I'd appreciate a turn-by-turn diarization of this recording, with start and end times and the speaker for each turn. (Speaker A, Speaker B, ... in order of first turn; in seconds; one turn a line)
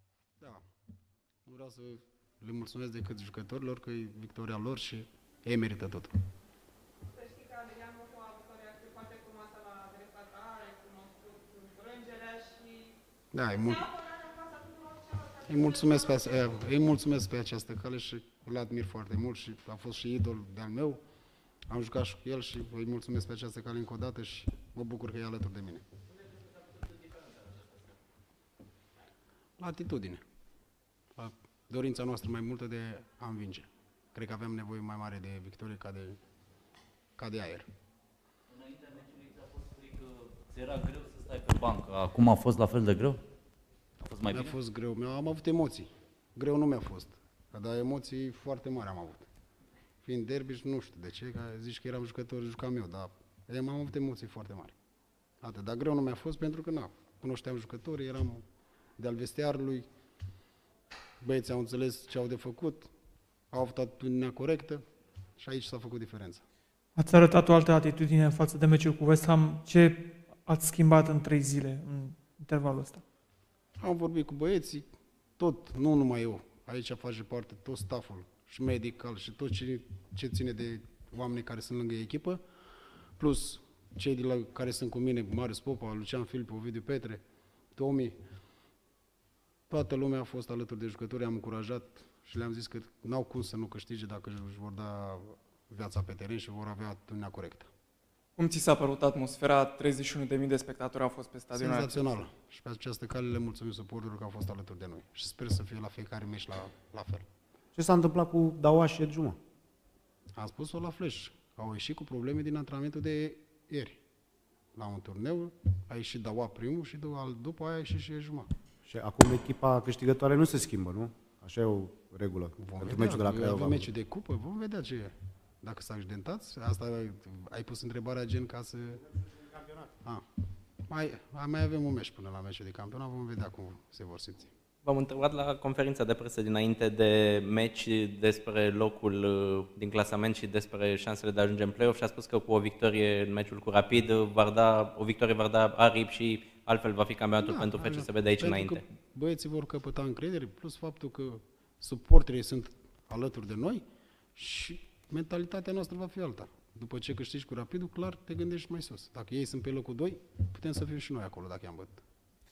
Speaker A: 1.4-6.1
Speaker B: 7.1-12.9
Speaker A: 13.3-13.9
Speaker B: 13.6-16.5
Speaker A: 15.4-21.0
Speaker A: 21.7-25.8
Speaker A: 29.6-30.2
Speaker A: 31.1-36.2
Speaker A: 37.2-37.7
Speaker C: 38.6-43.2
Speaker C: 44.0-44.5
Speaker A: 44.3-49.3
Speaker A: 50.0-54.8
Speaker A: 55.4-58.4
Speaker A: 59.0-59.9
Speaker A: 61.2-62.9
Speaker A: 63.5-64.8
Speaker A: 65.4-66.4
Speaker D: 67.0-73.0
Speaker A: 73.8-82.4
Speaker A: 83.2-87.2
Speaker A: 87.7-88.2
Speaker A: 89.7-97.7
Speaker E: 98.4-102.1
Speaker A: 101.5-107.2
Speaker F: 107.8-109.4
Speaker A: 110.3-114.0
Speaker A: 114.7-118.5
Speaker F: 118.8-123.9
Speaker A: 122.6-129.0
Speaker A: 130.9-134.5
Speaker G: 134.8-148.8
Speaker A: 147.4-153.8
Speaker A: 154.3-162.0